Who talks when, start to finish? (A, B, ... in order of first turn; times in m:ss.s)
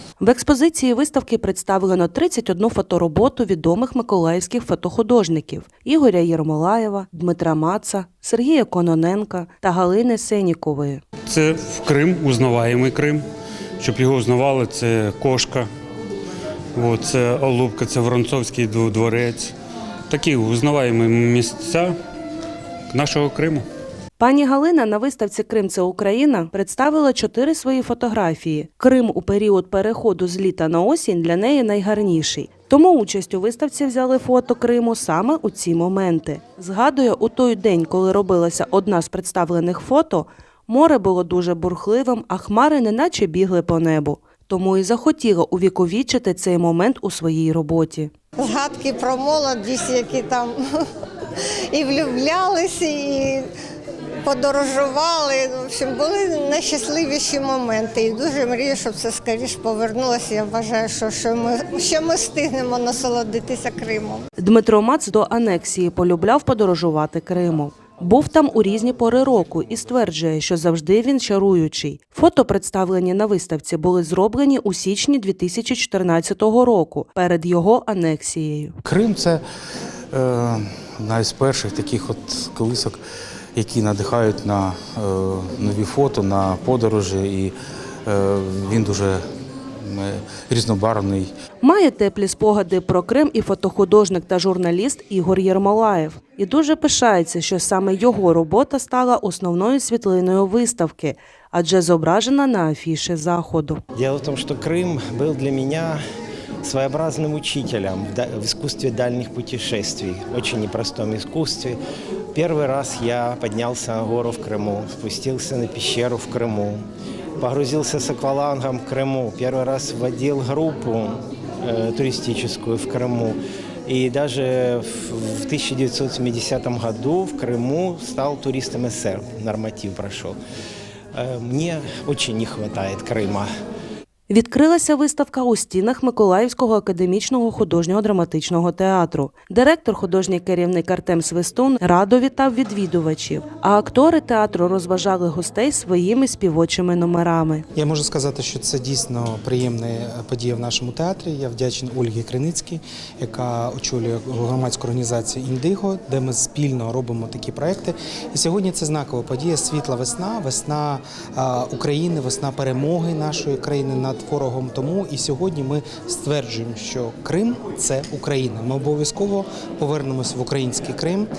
0:00.2-0:11.0 A
0:11.2-0:13.2 B
0:13.8-0:15.7 B
0:16.8-0:19.5 B
0:20.1-0:21.9 B
0:22.9-0:23.6 B
0:24.2-0:48.1 A
0:48.4-0:50.6 C
0:51.7-0:53.4 C
0:54.2-1:04.2 C
1:04.4-1:18.8 A
1:18.8-1:19.4 D
1:20.1-1:23.0 D
1:23.5-1:27.5 D
1:28.0-1:29.2 D
1:29.8-1:31.3 D
1:31.6-1:43.8 A
1:44.0-1:46.0 E
1:46.6-1:51.8 E
1:52.3-1:56.8 E
1:57.4-2:10.4 E
2:11.1-2:13.5 E
2:14.3-2:27.6 A
2:27.7-2:51.3 F